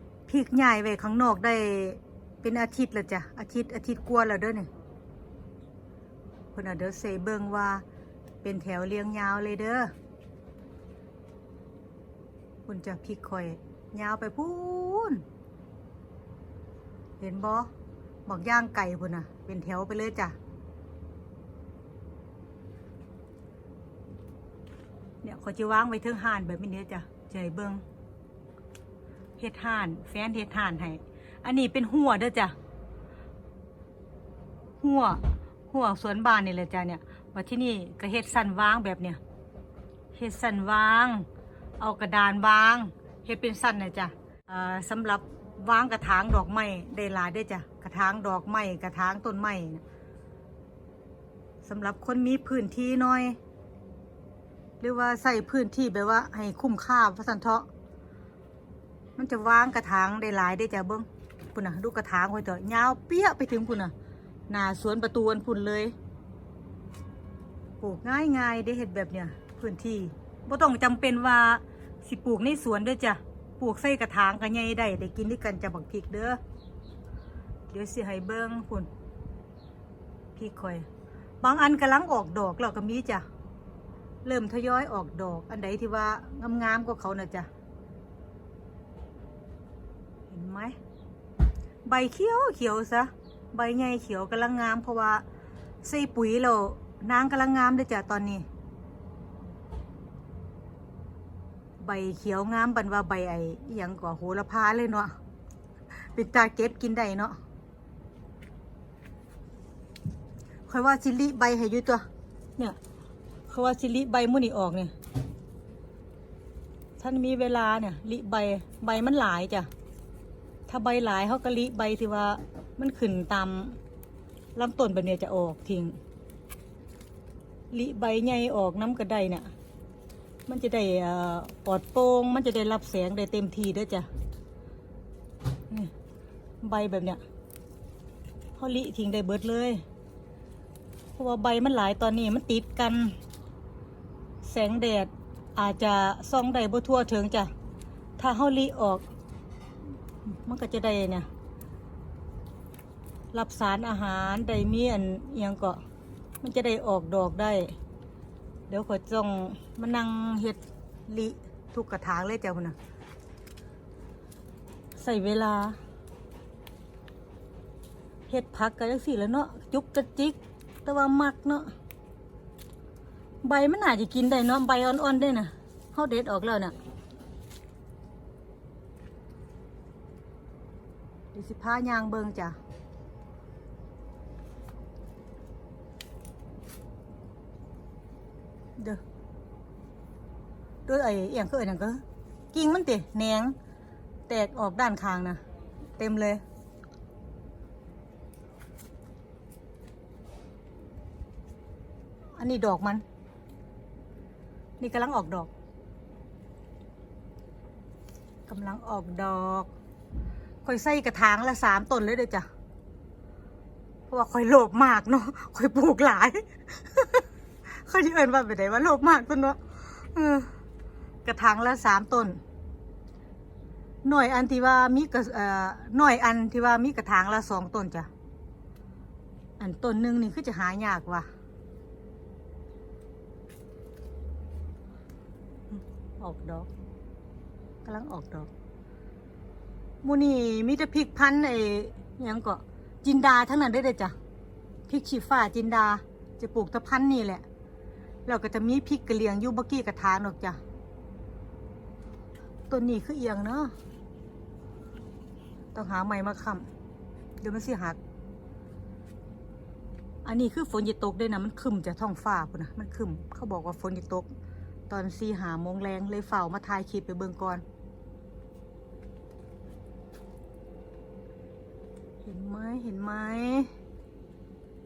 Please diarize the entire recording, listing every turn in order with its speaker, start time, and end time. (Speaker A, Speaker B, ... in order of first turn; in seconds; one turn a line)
Speaker A: 0.3-4.7
Speaker A: 6.5-7.8
Speaker A: 8.4-9.9
Speaker A: 12.7-15.2
Speaker A: 17.2-17.7
Speaker A: 18.2-20.4
Speaker A: 25.2-27.8
Speaker A: 29.4-32.5
Speaker A: 34.8-39.2
Speaker A: 40.1-41.3
Speaker A: 41.8-49.8
Speaker A: 51.6-53.4
Speaker A: 54.8-57.7
Speaker A: 59.2-63.9
Speaker A: 64.5-65.9
Speaker A: 67.8-76.4
Speaker A: 77.7-78.9
Speaker A: 80.3-80.9
Speaker A: 81.4-83.2
Speaker A: 84.2-87.5
Speaker A: 90.3-90.8
Speaker A: 91.8-95.2
Speaker A: 95.8-98.5
Speaker A: 101.8-105.1
Speaker A: 106.1-107.4
Speaker A: 110.7-112.0
Speaker A: 113.5-114.9
Speaker A: 117.0-119.7
Speaker A: 120.7-123.8
Speaker A: 124.5-126.0
Speaker A: 127.7-129.5
Speaker A: 130.5-134.1
Speaker A: 136.6-137.2
Speaker A: 138.6-139.8
Speaker A: 141.1-143.2
Speaker A: 144.4-147.5
Speaker A: 148.2-149.0
Speaker A: 150.4-151.3
Speaker A: 153.3-155.8
Speaker A: 156.4-157.8
Speaker A: 158.7-162.8
Speaker A: 164.9-165.8
Speaker A: 168.3-171.7
Speaker A: 173.4-176.7
Speaker A: 181.3-182.6
Speaker A: 190.8-193.5
Speaker A: 194.3-195.4
Speaker A: 196.0-196.4
Speaker A: 202.3-203.0
Speaker A: 204.8-205.5
Speaker A: 208.5-209.7
Speaker A: 210.6-212.5
Speaker A: 214.1-220.5
Speaker A: 221.2-222.4
Speaker A: 224.0-228.1
Speaker A: 229.6-231.3
Speaker A: 235.7-236.7
Speaker A: 237.8-238.5
Speaker A: 240.0-244.2
Speaker A: 244.9-247.4
Speaker A: 248.2-250.6
Speaker A: 252.7-253.7
Speaker A: 255.7-256.7
Speaker A: 257.4-258.0
Speaker A: 260.2-264.3
Speaker A: 264.9-267.6
Speaker A: 272.2-273.7